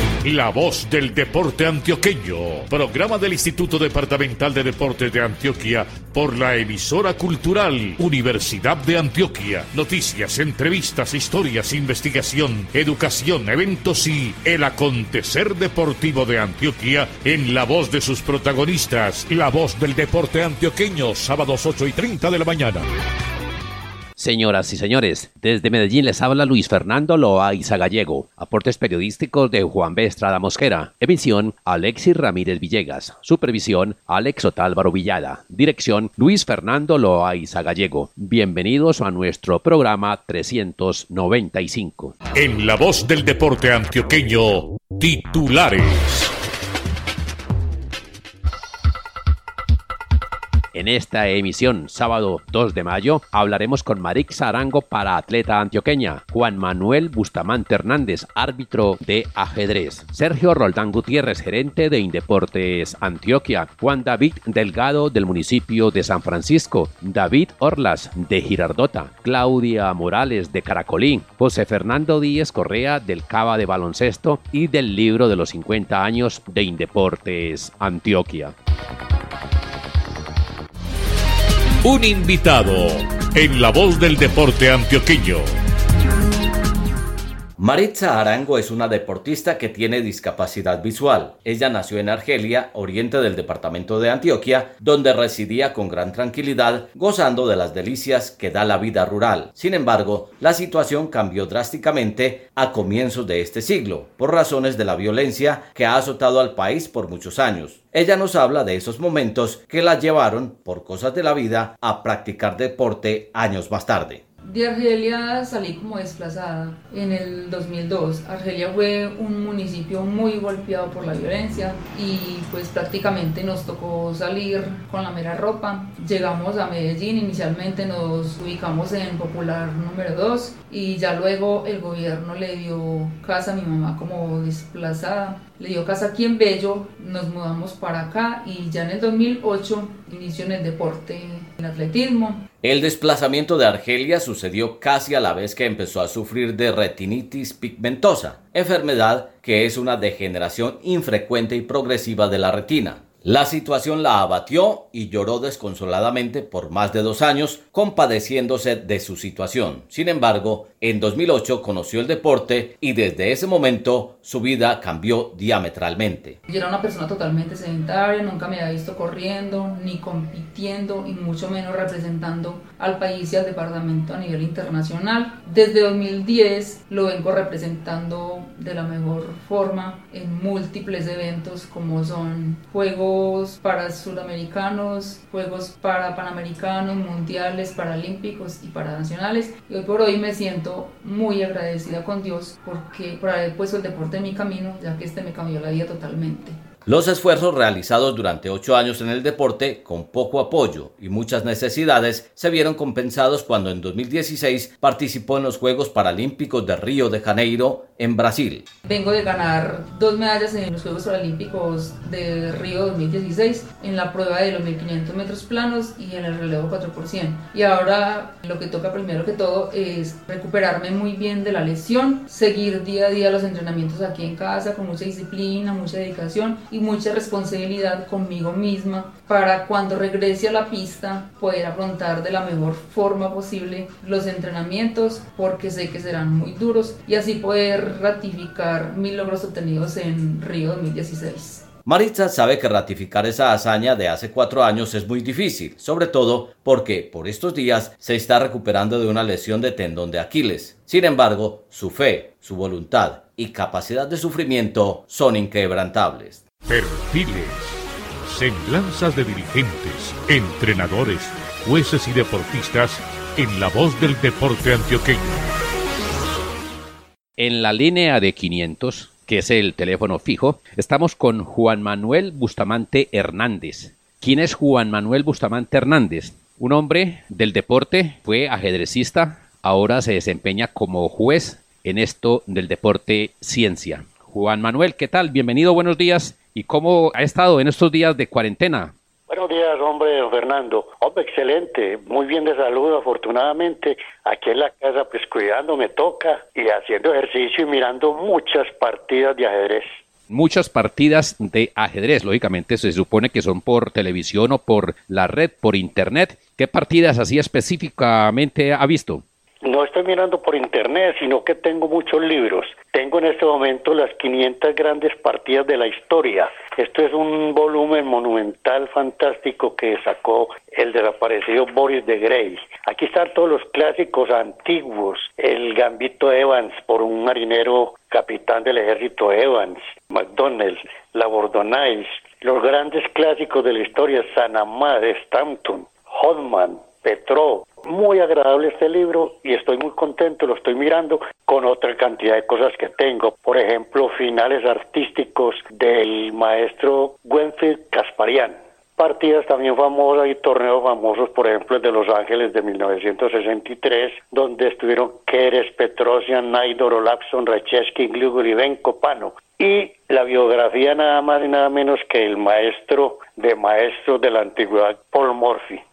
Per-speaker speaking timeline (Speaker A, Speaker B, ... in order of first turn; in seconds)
Speaker A: 0.2-22.9, 42.3-46.3, 81.8-85.5, 256.6-265.3
Speaker B: 24.2-42.1, 50.7-78.5, 267.4-288.9, 300.3-309.2
Speaker C: 87.6-114.2, 142.6-166.4, 196.8-208.6, 241.8-256.4
Speaker D: 114.4-142.4, 166.5-196.6, 208.8-241.6
Speaker E: 289.3-299.9, 309.6-365.8